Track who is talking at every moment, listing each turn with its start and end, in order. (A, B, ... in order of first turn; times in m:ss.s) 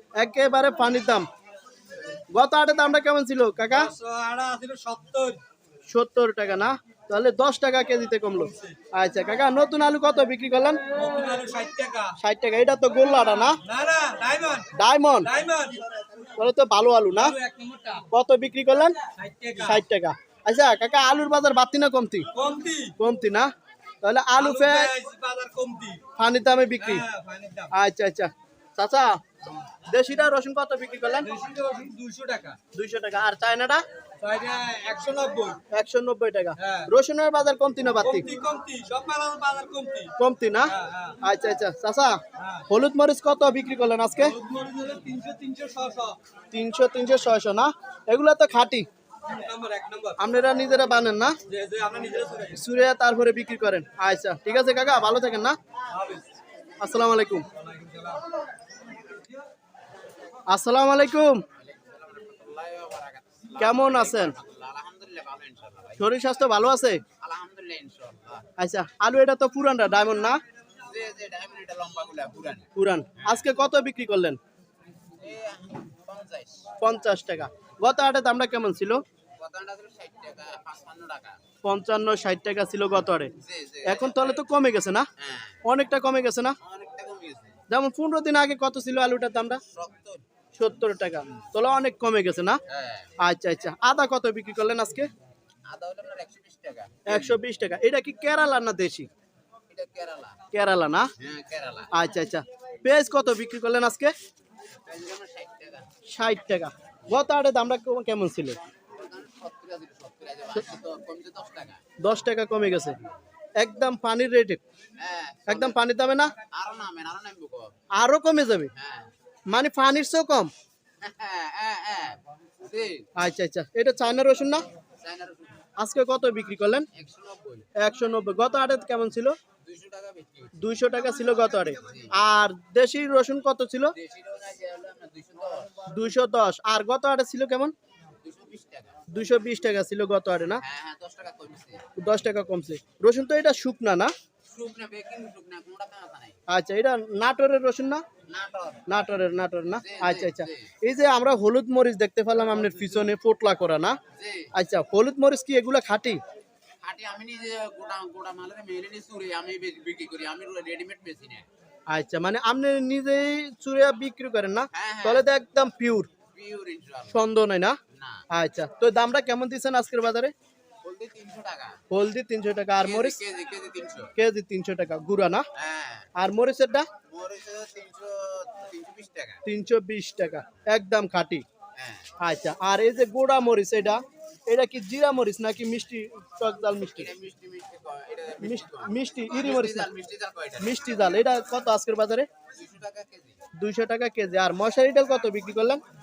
0:00.2-0:01.3 A
0:02.3-0:03.9 A
0:03.7-0:05.4 B
0:05.9-0:10.8 A
0:11.0-0:12.2 B
0:12.2-0:13.6 A
0:13.6-0:15.8 B
0:14.7-0:15.3 A
0:16.4-0:17.4 A
0:17.1-0:18.0 B
0:18.1-0:19.0 A
0:19.2-0:19.8 B
0:19.6-0:22.3 A
0:22.3-0:23.0 B
0:23.0-0:23.5 A
0:24.0-0:24.9 A
0:24.4-0:26.0 B
0:26.2-0:27.0 A
0:26.8-0:27.7 B
0:27.7-0:29.2 A
0:29.9-0:31.3 A
0:31.2-0:32.6 B
0:32.7-0:33.8 A
0:34.2-0:35.6 B
0:35.7-0:38.3 A
0:36.6-0:36.9 B
0:38.0-0:40.1 B
0:40.2-0:42.2 A
0:40.7-0:41.2 B
0:42.4-0:42.7 B
0:42.7-0:44.4 A
0:44.2-0:46.2 B
0:46.5-0:48.9 A
0:49.3-0:50.2 B
0:50.2-0:51.4 A
0:51.5-0:52.6 B
0:52.5-0:55.6 A
0:55.9-0:56.3 B
0:56.8-0:57.5 A
0:57.6-0:58.3 B
1:00.5-1:01.4 A
1:01.6-1:06.1 C
1:03.6-1:04.3 A
1:06.0-1:07.0 A
1:07.2-1:08.5 C
1:08.6-1:10.4 A
1:10.8-1:12.7 C
1:12.8-1:14.4 A
1:13.2-1:13.5 C
1:15.2-1:16.8 C
1:16.8-1:19.0 A
1:19.4-1:21.4 C
1:21.6-1:23.3 A
1:23.4-1:24.5 C
1:23.8-1:25.1 A
1:25.2-1:25.6 C
1:25.6-1:26.6 A
1:26.6-1:27.6 C
1:27.7-1:29.6 A
1:29.7-1:30.2 C
1:30.6-1:32.6 A
1:32.7-1:33.1 C
1:33.2-1:35.1 A
1:35.7-1:37.4 C
1:37.1-1:39.1 A
1:39.7-1:40.4 C
1:40.5-1:41.1 A
1:41.2-1:41.9 C
1:41.9-1:44.1 A
1:44.9-1:45.9 C
1:46.1-1:48.6 A
1:48.9-1:51.9 C
1:52.0-1:53.0 A
1:53.6-1:54.6 A
1:55.0-1:55.8 C
1:55.5-1:56.3 A
1:56.5-1:57.8 C
1:58.0-1:58.7 A
1:58.8-1:59.1 C
1:59.5-2:00.5 A
2:01.0-2:03.1 C
2:03.2-2:04.6 A
2:05.0-2:05.6 C
2:05.8-2:06.9 A
2:06.9-2:07.7 C
2:07.8-2:09.4 A
2:09.6-2:10.8 C
2:10.6-2:13.9 A
2:11.5-2:12.2 C
2:13.9-2:15.9 C
2:15.9-2:17.7 A
2:18.2-2:19.0 C
2:19.1-2:20.6 A
2:20.6-2:21.9 C
2:22.0-2:24.1 A
2:24.5-2:26.4 C
2:26.5-2:28.0 A
2:28.3-2:29.0 C
2:28.9-2:34.0 A
2:29.7-2:30.7 C
2:34.0-2:34.5 C
2:34.6-2:36.2 A
2:36.8-2:41.5 C
2:41.9-2:46.1 A
2:44.7-2:45.3 C
2:46.3-2:47.3 C
2:47.1-2:47.8 A
2:47.9-2:48.2 C
2:48.3-2:50.3 A
2:50.8-2:51.8 C
2:51.9-2:53.2 A
2:52.8-2:54.1 C
2:54.2-2:55.5 A
2:55.6-2:56.1 C
2:56.2-2:56.9 A
2:57.1-2:59.4 C
2:59.4-3:01.4 A
3:01.8-3:02.2 C
3:02.2-3:07.1 A
3:06.8-3:11.1 C
3:08.4-3:09.9 A
3:10.6-3:12.3 A
3:12.5-3:13.4 C
3:13.6-3:15.8 A